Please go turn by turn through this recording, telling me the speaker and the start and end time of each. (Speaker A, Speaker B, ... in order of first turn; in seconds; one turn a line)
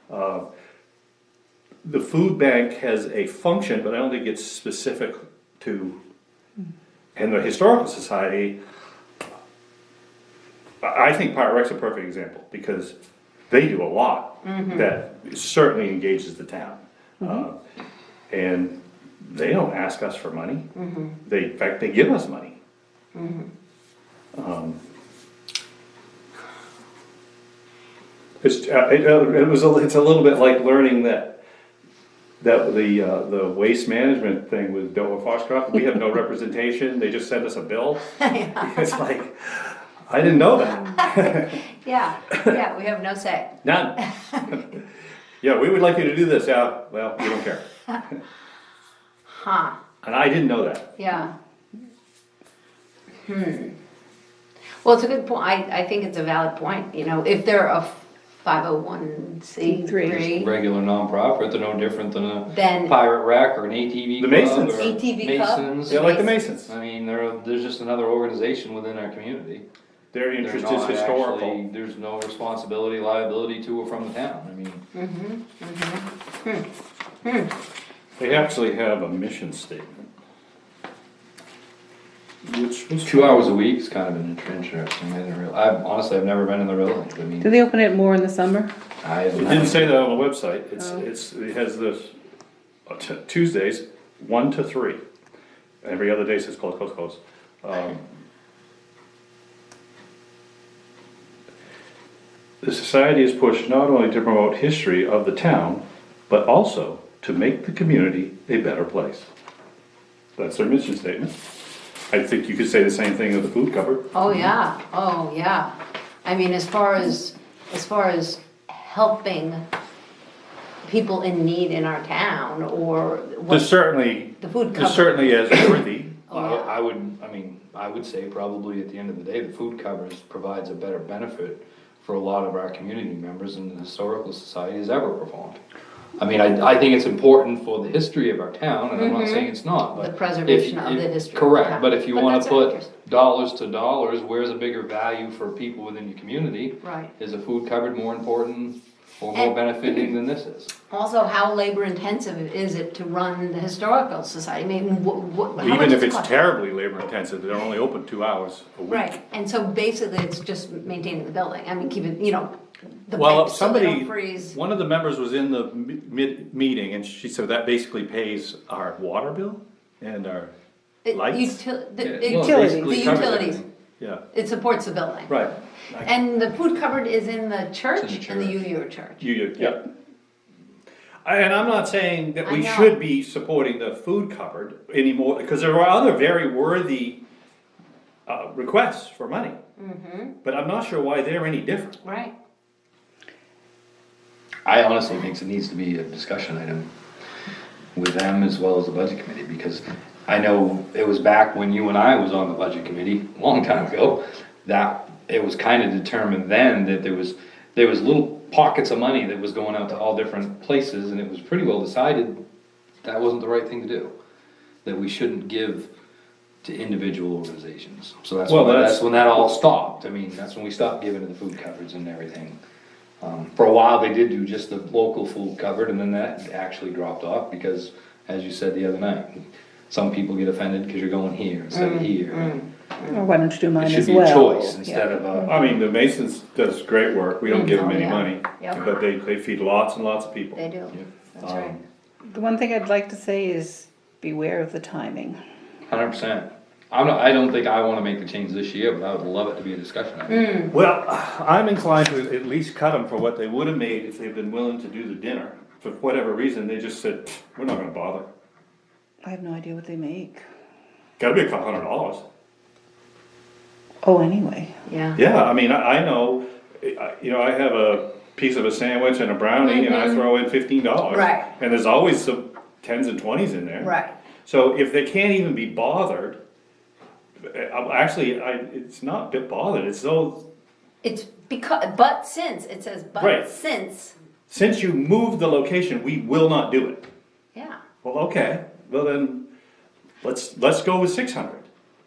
Speaker A: 0.1-0.4
Speaker A: 1.8-6.0
Speaker A: 7.2-8.6
Speaker A: 10.8-12.9
Speaker A: 13.5-17.6
Speaker B: 14.4-14.9
Speaker A: 18.3-20.7
Speaker B: 20.8-21.2
Speaker A: 21.2-22.6
Speaker B: 23.1-23.5
Speaker A: 24.4-24.8
Speaker A: 28.4-31.4
Speaker A: 32.4-41.6
Speaker B: 38.2-39.0
Speaker B: 40.9-44.6
Speaker A: 42.3-42.5
Speaker A: 43.6-44.8
Speaker A: 45.4-47.7
Speaker B: 49.3-49.8
Speaker A: 50.0-50.9
Speaker B: 51.0-51.3
Speaker B: 53.2-53.8
Speaker B: 54.8-60.5
Speaker C: 59.6-60.2
Speaker D: 60.0-69.7
Speaker B: 62.5-63.0
Speaker A: 64.2-65.0
Speaker B: 64.8-66.3
Speaker A: 65.9-66.7
Speaker A: 70.1-71.6
Speaker D: 70.4-74.8
Speaker B: 74.9-76.7
Speaker B: 77.2-77.5
Speaker A: 78.2-80.0
Speaker A: 82.5-83.5
Speaker D: 83.0-87.5
Speaker C: 87.4-88.7
Speaker D: 89.0-89.9
Speaker A: 89.3-92.1
Speaker A: 92.9-95.0
Speaker A: 95.8-98.0
Speaker A: 102.6-109.3
Speaker A: 110.4-111.4
Speaker A: 112.1-114.1
Speaker B: 114.1-115.7
Speaker B: 116.2-119.6
Speaker B: 120.8-123.7
Speaker A: 123.5-126.2
Speaker B: 124.4-126.8
Speaker D: 126.3-135.6
Speaker D: 136.2-150.7
Speaker B: 138.9-142.9
Speaker B: 146.8-147.1
Speaker B: 150.9-156.3
Speaker A: 155.6-159.2
Speaker B: 158.9-162.5
Speaker B: 163.1-164.6
Speaker A: 163.1-170.5
Speaker B: 171.1-173.6
Speaker A: 171.1-171.6
Speaker D: 172.0-173.7
Speaker C: 172.3-173.3
Speaker B: 174.3-175.3
Speaker A: 175.3-176.1
Speaker B: 176.0-179.2
Speaker D: 177.9-178.7
Speaker A: 179.2-179.8
Speaker A: 181.2-187.2
Speaker B: 182.4-183.0
Speaker A: 188.3-189.6
Speaker B: 189.8-190.3
Speaker A: 190.4-192.0
Speaker B: 192.0-192.3
Speaker D: 194.7-196.9
Speaker D: 197.9-212.4
Speaker D: 213.0-214.1
Speaker D: 214.8-215.9
Speaker D: 216.6-222.6
Speaker A: 218.5-219.5
Speaker D: 223.2-232.6
Speaker B: 231.7-233.2
Speaker C: 233.1-235.6
Speaker D: 233.8-235.6
Speaker A: 235.5-240.6
Speaker B: 237.5-238.9
Speaker B: 240.6-241.8
Speaker A: 241.4-241.8
Speaker C: 242.3-245.4
Speaker D: 245.9-250.5
Speaker B: 250.3-250.7
Speaker A: 250.7-258.3
Speaker C: 259.2-260.4
Speaker A: 261.2-262.2
Speaker C: 264.0-264.7
Speaker B: 264.9-265.2
Speaker A: 265.2-273.9
Speaker B: 269.6-270.3
Speaker B: 271.1-271.5
Speaker B: 273.8-274.2
Speaker A: 274.4-276.4
Speaker A: 277.5-280.4
Speaker B: 281.0-284.1
Speaker A: 283.2-283.5
Speaker A: 284.5-287.0
Speaker A: 288.0-289.4
Speaker A: 290.2-291.7